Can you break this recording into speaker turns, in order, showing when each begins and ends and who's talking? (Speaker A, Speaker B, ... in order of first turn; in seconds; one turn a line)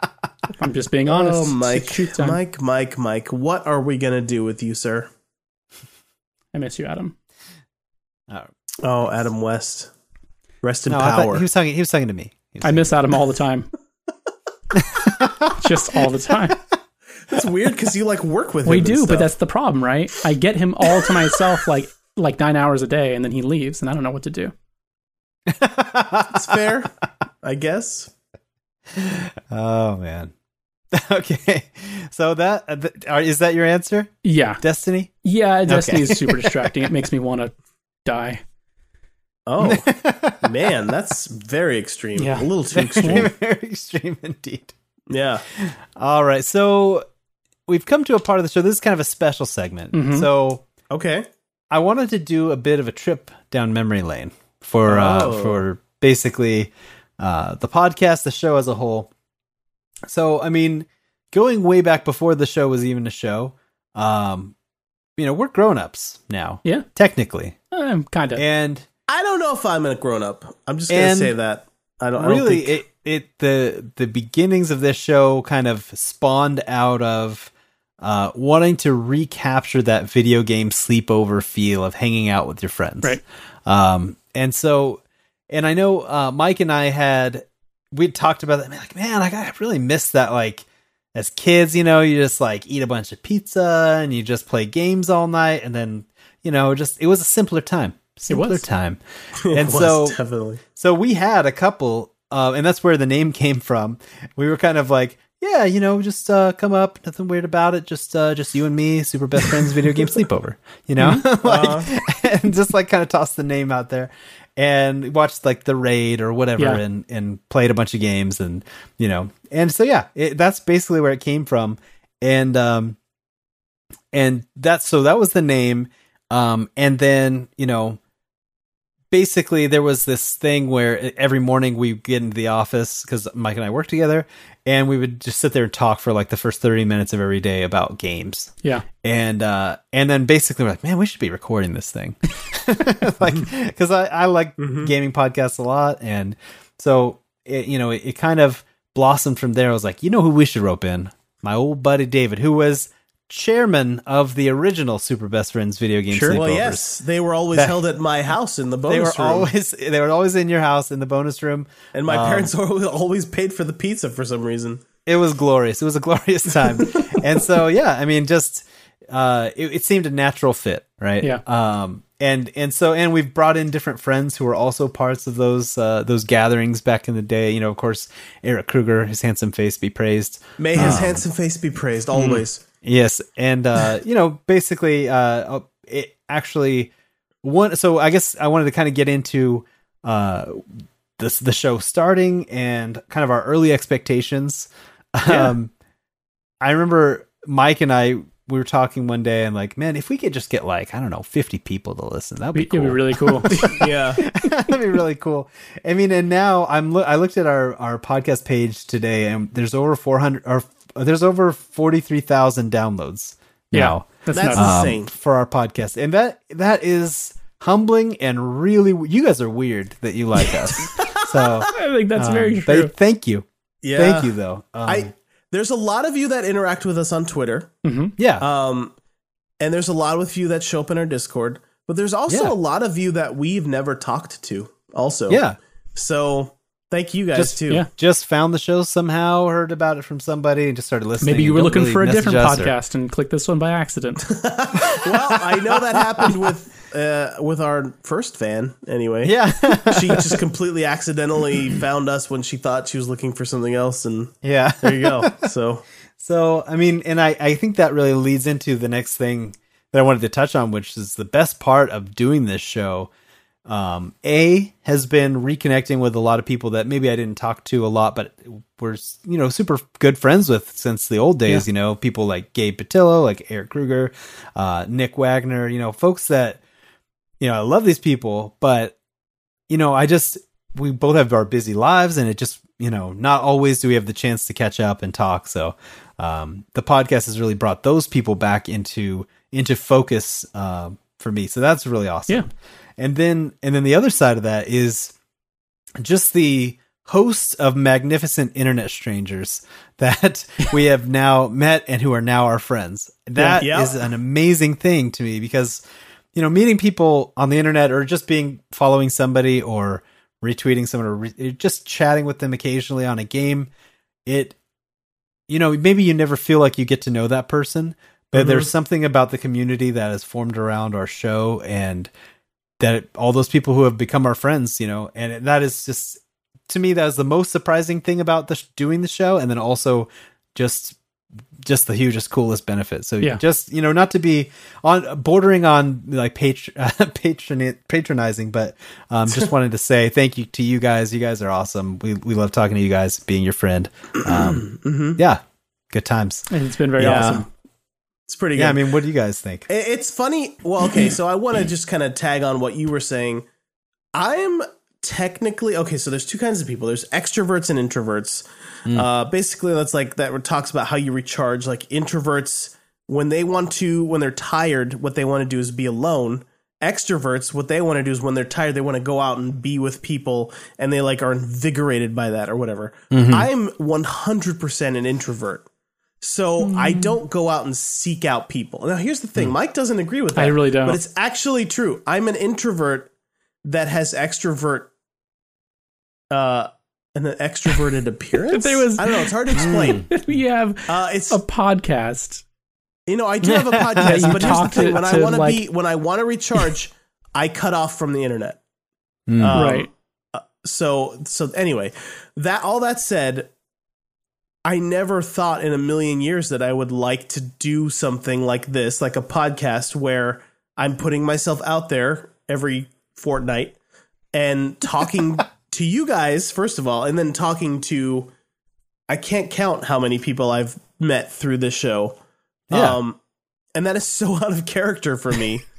Speaker A: 0.5-2.4
Speaker B: 1.1-5.1
Speaker A: 6.5-7.1
Speaker B: 8.8-9.9
Speaker B: 10.6-11.4
Speaker C: 10.9-12.9
Speaker A: 12.6-13.7
Speaker C: 14.8-15.5
Speaker A: 15.5-16.6
Speaker B: 17.3-19.3
Speaker A: 18.6-24.5
Speaker C: 25.5-26.6
Speaker B: 26.3-26.9
Speaker B: 27.4-28.1
Speaker C: 28.9-30.3
Speaker C: 30.9-35.1
Speaker A: 34.2-34.6
Speaker A: 35.2-37.5
Speaker C: 35.7-36.9
Speaker A: 38.0-38.4
Speaker B: 39.5-43.3
Speaker C: 39.6-40.6
Speaker A: 42.2-43.3
Speaker C: 42.7-44.7
Speaker B: 45.1-45.4
Speaker C: 45.5-47.0
Speaker C: 47.7-50.6
Speaker A: 49.9-50.3
Speaker B: 50.9-51.3
Speaker C: 51.7-59.1
Speaker B: 54.9-55.6
Speaker C: 60.1-64.5
Speaker C: 65.2-67.5
Speaker A: 67.7-68.4
Speaker C: 68.3-68.8
Speaker B: 69.1-72.8
Speaker C: 70.9-71.3
Speaker C: 72.2-99.0
Speaker A: 98.3-98.6
Speaker B: 99.4-100.6
Speaker C: 99.5-100.2
Speaker C: 100.7-123.0
Speaker B: 111.4-111.9
Speaker C: 124.1-128.0
Speaker C: 129.1-156.9
Speaker B: 144.6-144.9
Speaker A: 156.1-156.4
Speaker B: 156.3-159.5
Speaker C: 158.9-162.5
Speaker B: 161.9-164.8
Speaker C: 165.1-181.2
Speaker B: 180.6-182.6
Speaker A: 182.1-182.4
Speaker C: 182.8-186.9
Speaker C: 187.4-195.7
Speaker A: 195.3-195.5
Speaker C: 196.6-225.1
Speaker A: 202.5-203.9
Speaker B: 203.8-204.2
Speaker A: 213.7-214.7
Speaker B: 214.3-215.1
Speaker B: 220.9-221.5
Speaker A: 221.7-222.9
Speaker B: 223.8-224.3
Speaker B: 224.8-227.7
Speaker A: 227.8-228.2
Speaker C: 228.2-228.5
Speaker B: 228.4-228.9
Speaker B: 229.6-235.4
Speaker C: 232.3-232.5
Speaker C: 235.3-235.6
Speaker B: 235.9-237.8
Speaker C: 237.3-242.7
Speaker A: 241.2-244.3
Speaker B: 244.3-255.8
Speaker C: 244.8-245.5
Speaker C: 249.2-250.4
Speaker C: 254.4-255.5
Speaker C: 256.2-263.1
Speaker C: 263.6-276.6
Speaker C: 277.4-278.9
Speaker C: 279.7-295.1
Speaker C: 296.0-305.8
Speaker B: 303.6-304.0
Speaker C: 306.3-313.7
Speaker C: 314.2-314.6
Speaker C: 315.5-322.1
Speaker B: 318.3-318.7
Speaker C: 322.8-331.0
Speaker C: 331.6-345.4
Speaker B: 344.2-345.2
Speaker C: 345.9-347.4
Speaker A: 346.5-347.5
Speaker B: 347.0-347.4
Speaker B: 348.3-348.9
Speaker C: 348.6-349.7
Speaker B: 349.7-353.4
Speaker B: 354.1-375.6
Speaker C: 373.1-373.5
Speaker B: 376.2-383.1
Speaker A: 376.6-377.2
Speaker A: 380.3-381.0
Speaker B: 383.6-384.9
Speaker B: 386.3-390.1
Speaker A: 388.5-392.4
Speaker C: 389.6-390.1
Speaker B: 390.9-391.4
Speaker B: 393.1-398.6
Speaker C: 393.4-394.8
Speaker A: 394.0-395.6
Speaker C: 399.3-399.6
Speaker B: 399.4-403.5
Speaker A: 399.5-399.9
Speaker B: 404.6-413.8
Speaker B: 414.3-418.3
Speaker B: 419.1-422.2
Speaker C: 422.7-423.0
Speaker B: 422.7-423.2
Speaker B: 423.7-425.6